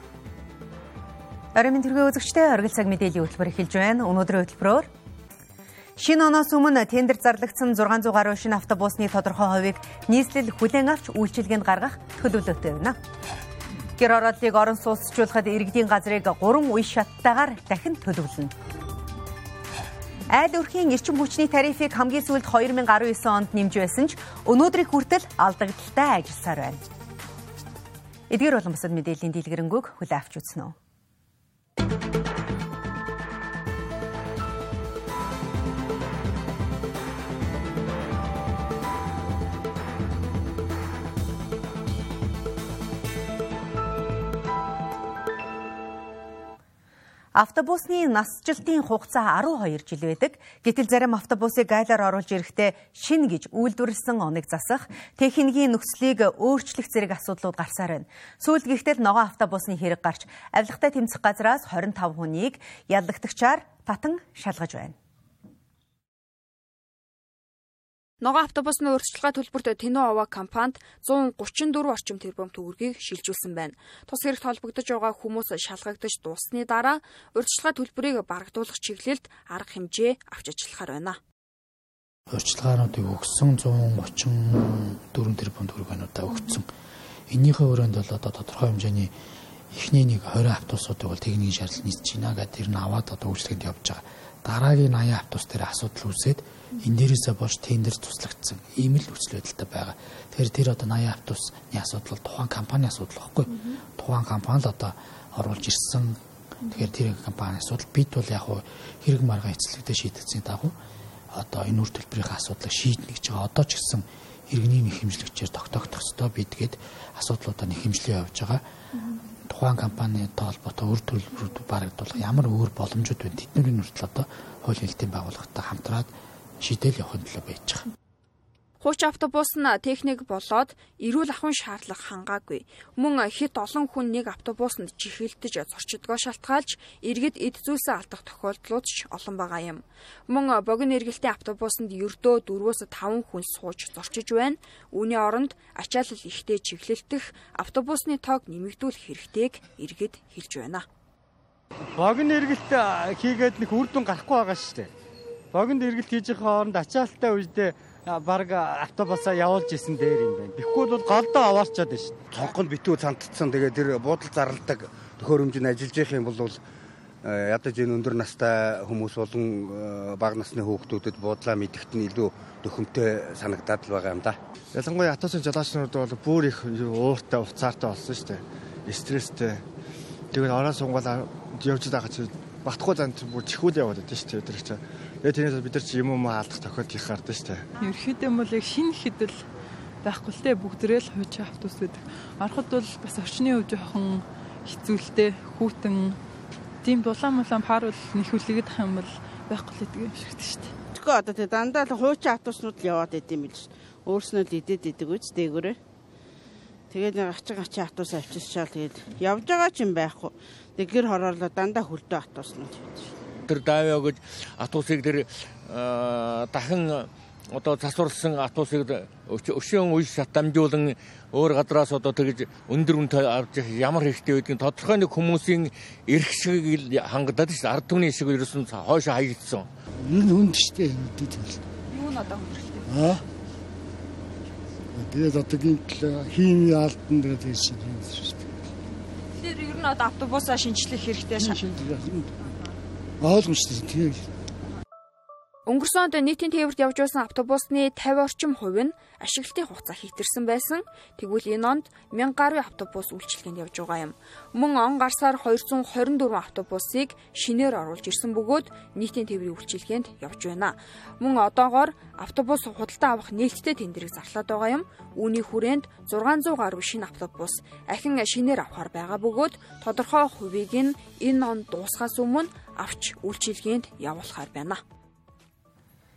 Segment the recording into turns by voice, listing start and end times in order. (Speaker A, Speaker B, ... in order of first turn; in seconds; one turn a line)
Speaker A: 1.5-4.9
Speaker A: 6.0-13.0
Speaker A: 14.0-18.5
Speaker A: 20.3-26.8
Speaker A: 28.3-30.7
Speaker A: 47.3-64.9
Speaker B: 68.2-81.2
Speaker C: 82.3-86.7
Speaker C: 87.3-89.1
Speaker C: 89.7-110.7
Speaker C: 111.3-118.6
Speaker C: 119.5-127.8
Speaker B: 128.8-150.8
Speaker D: 154.2-154.9
Speaker D: 158.1-160.0
Speaker D: 161.8-162.1
Speaker E: 162.3-166.6
Speaker E: 167.2-174.3
Speaker F: 174.7-179.6
Speaker F: 180.3-187.7
Speaker G: 187.8-189.4
Speaker G: 190.0-196.2
Speaker G: 196.8-200.7
Speaker H: 200.9-205.8
Speaker H: 206.9-213.1
Speaker I: 213.4-229.7
Speaker J: 230.0-231.6
Speaker B: 231.9-232.8
Speaker J: 232.8-233.2
Speaker J: 234.9-238.5
Speaker B: 239.4-241.6
Speaker J: 241.3-242.3
Speaker J: 243.2-244.3
Speaker B: 245.7-274.8